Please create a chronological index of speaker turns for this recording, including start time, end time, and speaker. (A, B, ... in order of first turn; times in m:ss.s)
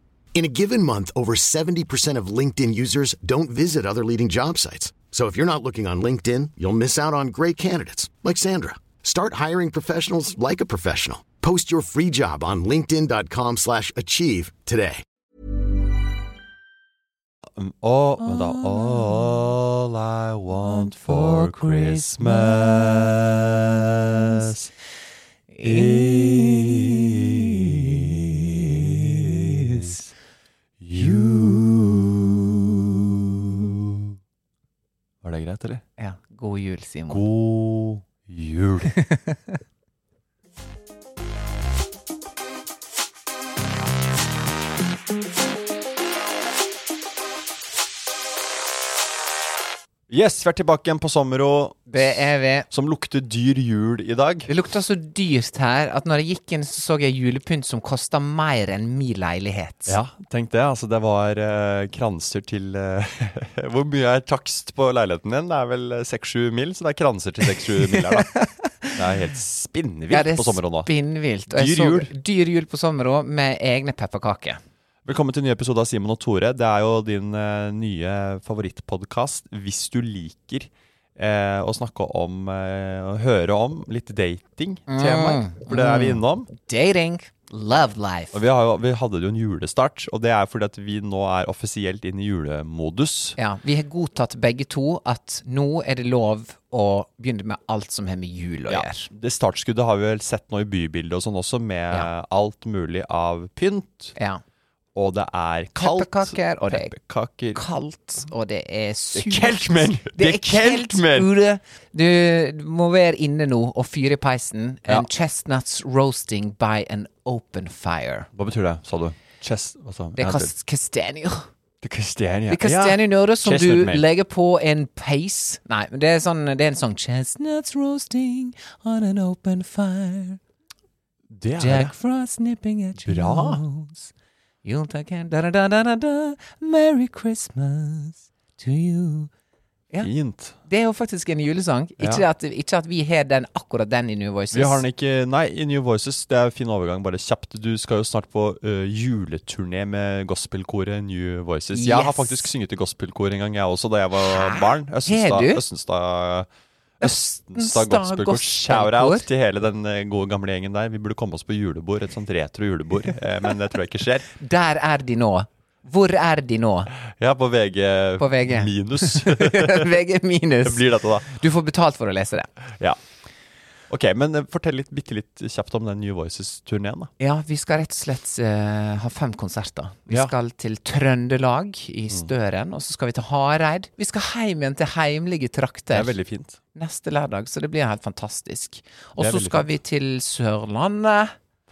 0:00.3-0:15.0 A
0:17.6-0:24.7 B
0:18.2-0:19.1 C
0:20.6-0:22.8 C
0:25.5-0:26.7 C
0:25.6-0:30.1 B
0:28.8-0:29.9 C
0:30.8-0:34.1 B
0:30.9-0:31.6 C
0:35.2-0:35.8 B
0:36.0-0:37.2 C
0:37.1-0:38.9 B
0:38.9-0:39.6 C
0:50.1-0:52.2 B
0:51.9-0:52.7 C
0:52.7-0:54.5 B
0:54.5-1:00.0 C
0:59.9-1:08.3 B
1:07.7-1:09.0 C
1:08.9-1:10.9 B
1:10.1-1:14.6 C
1:11.5-1:12.1 B
1:15.0-1:26.5 B
1:24.9-1:28.4 C
1:28.3-1:33.4 B
1:33.4-1:39.1 C
1:38.7-1:44.1 B
1:44.2-1:44.4 C
1:44.9-1:47.6 B
1:45.8-1:47.0 C
1:47.5-1:58.3 C
1:49.1-1:51.3 B
1:58.3-2:00.5 B
2:00.2-2:01.5 C
2:01.8-2:04.0 B
2:02.5-2:10.4 C
2:11.3-2:11.9 B
2:11.6-2:14.1 C
2:13.0-2:13.6 B
2:14.6-2:19.3 C
2:20.0-2:20.5 B
2:20.6-2:24.8 C
2:22.0-2:22.2 B
2:24.5-2:36.5 B
2:31.7-2:32.5 C
2:34.2-2:35.6 C
2:37.0-2:44.3 B
2:37.0-2:39.3 C
2:44.3-2:46.9 C
2:47.1-2:50.0 B
2:48.2-2:52.5 C
2:50.6-2:51.4 B
2:53.9-2:57.1 B
2:57.2-3:06.1 C
3:00.1-3:00.3 B
3:05.9-3:06.6 B
3:06.7-3:11.3 C
3:09.2-3:09.7 B